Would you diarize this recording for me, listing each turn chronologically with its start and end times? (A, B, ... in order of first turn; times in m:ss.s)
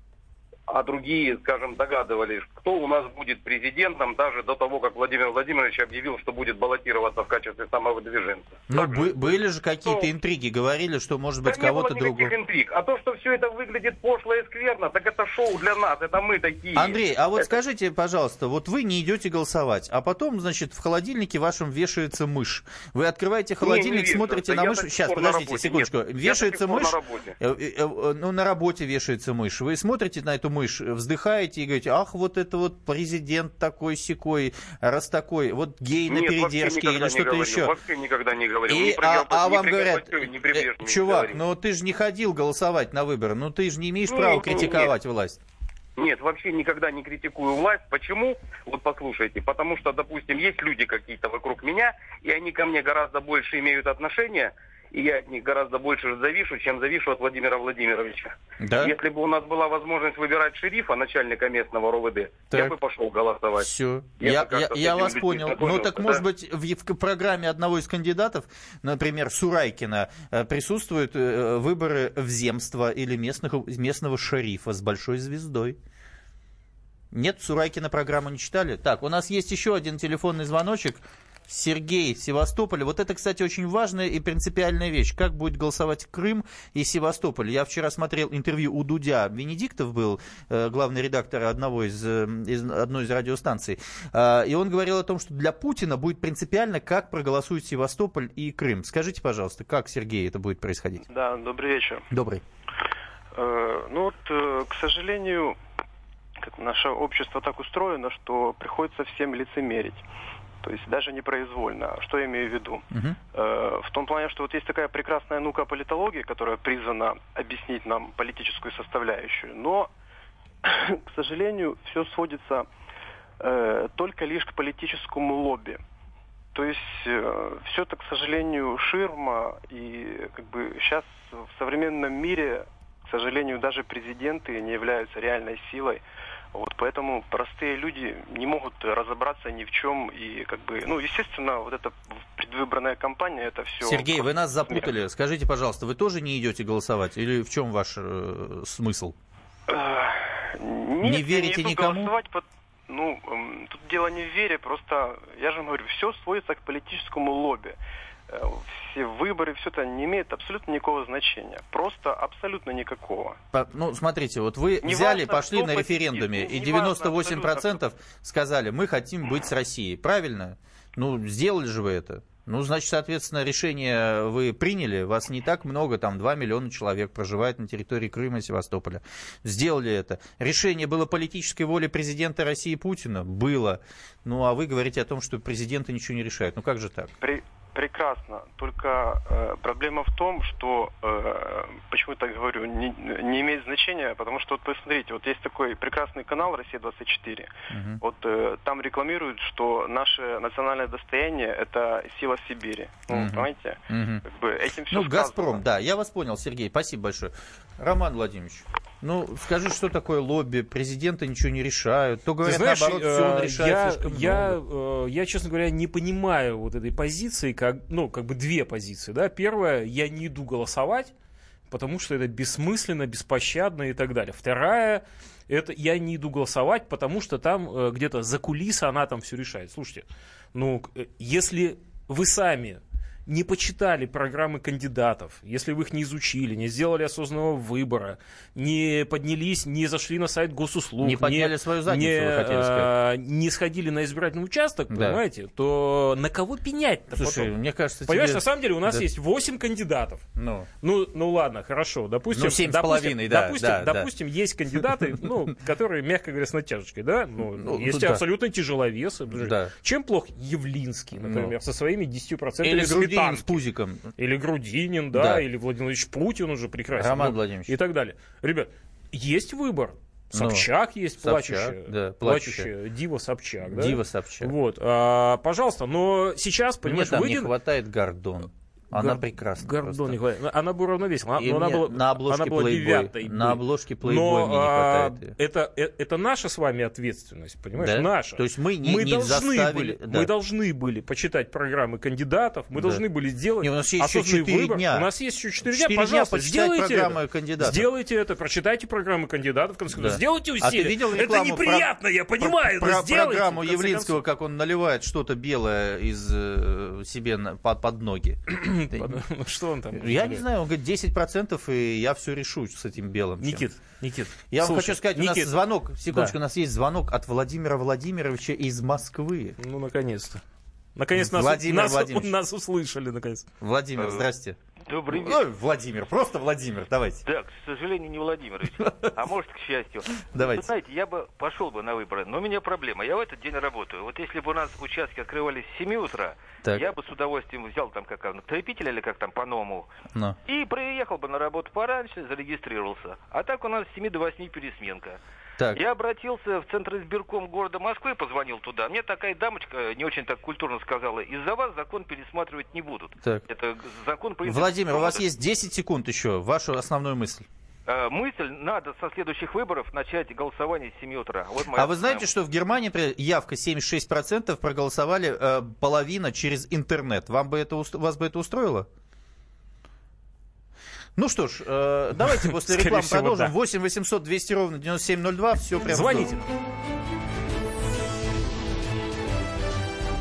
0:00.7-0:09.1 A
0:08.7-0:12.3 B
0:11.4-0:17.5 A
0:16.7-0:37.7 B
0:23.6-0:27.3 A
0:36.1-0:41.4 A
0:38.7-0:45.4 B
0:44.1-0:44.9 A
0:46.0-1:03.7 A
0:58.6-0:58.9 B
1:03.6-1:15.8 B
1:04.2-1:06.2 A
1:17.1-1:41.0 B
1:41.1-1:42.1 C
1:42.1-1:42.4 B
1:43.3-1:45.6 C
1:46.4-1:50.0 C
1:50.6-1:59.9 C
1:52.9-1:53.2 B
2:00.6-2:02.7 C
2:03.4-2:05.8 C
2:06.5-2:16.0 C
2:16.5-2:24.9 C
2:23.8-2:29.2 B
2:29.7-2:37.8 C
2:31.0-2:32.1 B
2:38.3-2:43.4 C
2:43.5-3:07.1 B
2:44.8-2:47.8 C
3:07.2-3:17.5 C
3:17.7-3:18.0 B
3:18.0-3:25.6 C
3:23.1-3:24.2 B
3:24.9-3:34.6 B
3:32.4-3:41.1 D
3:41.7-4:07.5 D
4:01.0-4:02.9 B
4:04.9-4:05.2 B
4:07.1-4:09.0 B
4:08.1-4:10.2 D
4:10.4-4:10.7 B
4:10.8-4:23.6 D
4:12.3-4:14.1 B
4:17.6-4:18.2 B
4:19.3-4:19.7 B
4:21.1-4:21.5 B
4:22.6-4:24.1 B
4:24.2-4:37.5 D
4:25.1-4:25.4 B
4:26.9-4:27.8 B
4:30.3-4:30.7 B
4:31.2-4:32.7 B
4:33.6-4:34.5 B
4:36.8-4:40.2 B
4:38.9-5:04.2 D
4:41.4-4:45.3 B
4:47.8-4:50.3 B
4:52.7-4:53.0 B
4:53.6-4:55.1 B
4:55.6-4:57.9 B
4:59.9-5:09.2 B
5:08.5-5:10.4 D
5:09.9-5:13.7 B
5:13.4-5:15.5 D
5:14.5-5:19.6 B
5:16.1-5:16.4 D
5:19.6-5:20.4 D
5:21.0-5:23.4 D
5:21.1-5:22.3 B
5:23.6-5:24.6 B
5:24.0-5:24.3 E
5:24.8-5:25.4 E
5:25.1-5:27.2 B
5:27.2-5:39.9 E
5:30.3-5:30.6 B
5:40.4-5:45.2 E
5:45.7-5:55.3 E
5:54.4-5:57.4 B
5:57.8-6:02.3 E
6:01.7-6:08.9 B
6:11.2-6:16.3 B
6:12.4-6:13.5 D
6:15.9-6:16.4 D